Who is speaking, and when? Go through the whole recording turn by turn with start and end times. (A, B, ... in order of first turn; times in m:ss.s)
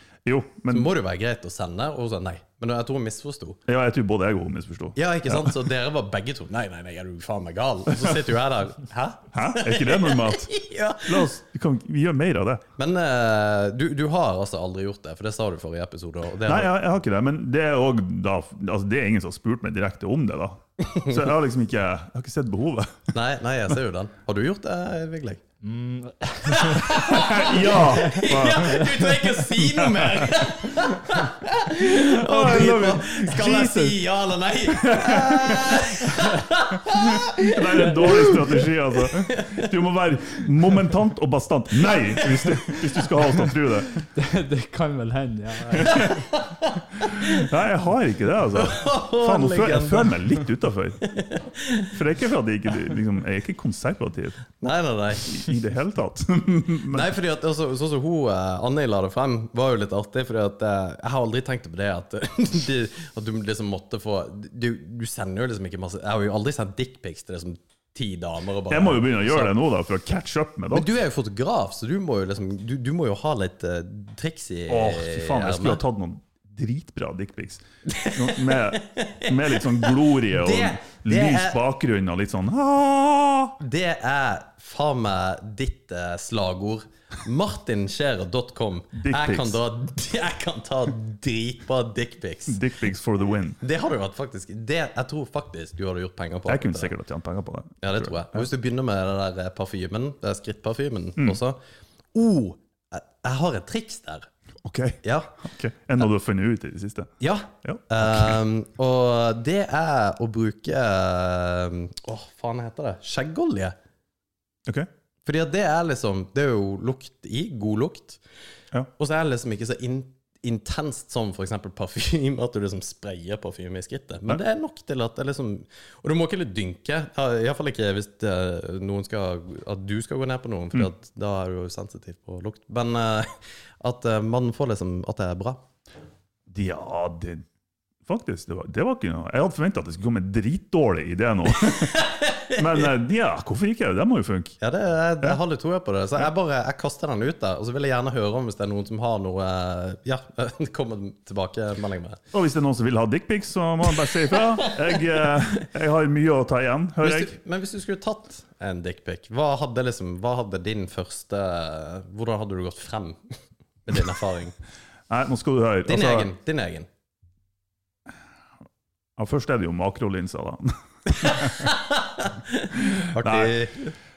0:00.2-0:00.9 A
0:00.7-0:03.6 B
0:03.7-0:05.6 A
0:05.0-0:11.3 B
0:07.9-0:08.2 A
0:09.3-0:10.5 A
0:11.0-0:12.6 A
0:12.8-0:16.7 B
0:16.5-0:23.1 A
0:23.1-0:25.4 B
0:25.6-0:26.9 C
0:26.4-0:39.7 B
0:26.9-0:31.2 A
0:31.7-0:34.1 A
0:34.7-0:35.9 A
0:36.9-0:44.0 A
0:41.9-0:42.8 B
0:44.2-0:46.3 C
0:45.8-0:46.1 A
0:45.9-0:47.5 B
0:47.0-0:51.0 A
0:48.5-0:50.2 B
0:51.0-0:51.9 B
0:51.9-0:54.4 A
0:54.6-0:55.4 B
0:55.2-0:57.1 A
0:56.9-1:09.5 B
1:08.7-1:10.9 A
1:10.7-1:15.8 B
1:14.7-1:23.6 A
1:17.9-1:21.6 B
1:23.6-1:32.6 B
1:29.0-1:29.6 A
1:32.5-1:33.6 A
1:33.6-1:36.9 B
1:36.5-1:38.5 A
1:37.8-1:41.6 B
1:42.1-1:44.3 B
1:44.6-1:48.4 A
1:45.0-1:45.4 B
1:47.2-1:53.8 B
1:55.2-1:58.2 B
1:59.0-2:15.6 B
2:16.5-2:17.4 A
2:18.0-2:24.6 A
2:21.7-2:22.9 B
2:24.6-2:32.2 B
2:32.3-2:37.3 A
2:37.0-2:44.6 B
2:45.1-2:46.3 A
2:45.9-2:46.9 B
2:49.2-2:51.7 A
2:51.1-2:53.9 B
2:52.8-2:53.6 A